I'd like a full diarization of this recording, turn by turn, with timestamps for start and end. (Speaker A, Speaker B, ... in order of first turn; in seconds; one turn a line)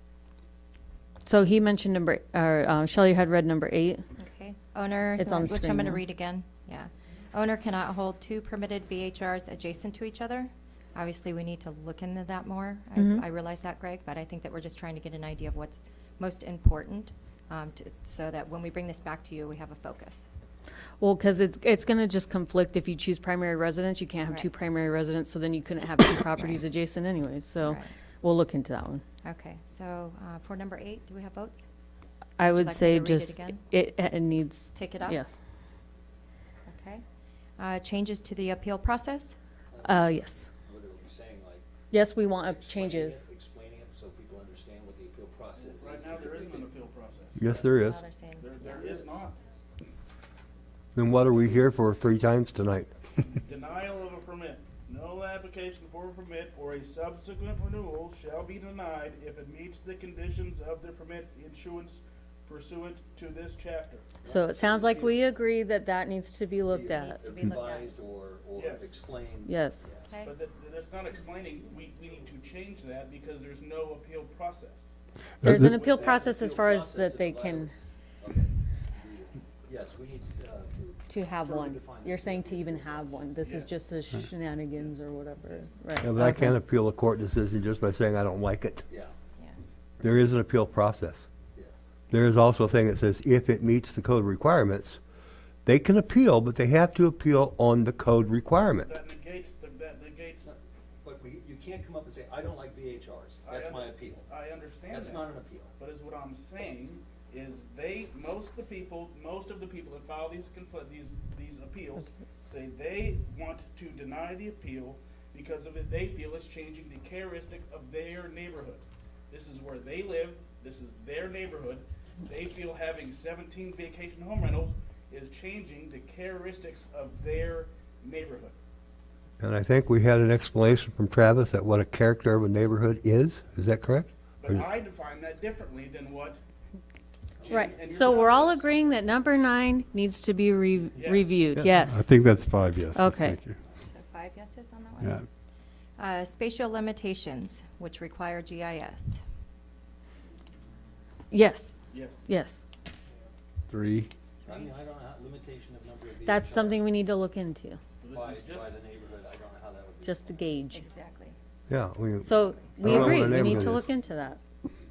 Speaker A: 1.2-4.0
Speaker B: 4.2-20.3
Speaker A: 5.2-6.0
Speaker A: 13.0-13.2
Speaker A: 21.0-29.0
Speaker B: 27.6-27.9
Speaker B: 29.2-31.6
Speaker A: 32.4-35.3
Speaker B: 32.5-33.6
Speaker B: 34.7-35.2
Speaker B: 36.7-37.0
Speaker B: 37.6-39.4
Speaker C: 39.7-41.7
Speaker A: 39.8-40.5
Speaker A: 41.9-43.2
Speaker C: 42.4-46.7
Speaker D: 45.6-47.5
Speaker E: 47.4-48.0
Speaker B: 47.5-49.1
Speaker D: 48.4-49.4
Speaker E: 51.0-52.9
Speaker D: 53.4-64.1
Speaker C: 64.2-65.1
Speaker A: 64.2-67.2
Speaker C: 66.7-70.1
Speaker B: 67.1-68.0
Speaker D: 68.5-69.0
Speaker A: 69.4-69.8
Speaker D: 70.2-74.9
Speaker F: 75.4-75.8
Speaker A: 75.4-77.7
Speaker D: 75.5-76.3
Speaker C: 75.9-83.7
Speaker A: 81.1-86.6
Speaker D: 83.4-83.7
Speaker E: 86.0-88.9
Speaker C: 88.9-89.1
Speaker E: 90.0-91.3
Speaker C: 91.5-91.8
Speaker E: 92.1-95.0
Speaker E: 95.7-98.9
Speaker D: 98.8-100.5
Speaker C: 100.4-104.3
Speaker D: 103.4-128.6
Speaker C: 104.9-105.7
Speaker E: 129.4-134.7
Speaker D: 134.4-136.4
Speaker D: 137.4-138.9
Speaker A: 137.5-142.1
Speaker D: 141.0-141.3
Speaker F: 141.6-143.6
Speaker A: 142.9-143.4
Speaker B: 143.8-145.2
Speaker F: 145.0-145.3
Speaker B: 146.0-149.2
Speaker A: 151.3-151.7
Speaker D: 151.9-152.2
Speaker A: 152.3-152.6
Speaker F: 153.7-154.1
Speaker C: 154.4-156.9
Speaker B: 154.5-154.7
Speaker A: 156.2-157.8
Speaker D: 158.0-158.8
Speaker C: 158.1-160.4
Speaker A: 160.0-160.9
Speaker B: 160.7-161.4
Speaker E: 161.7-163.9
Speaker A: 162.2-164.4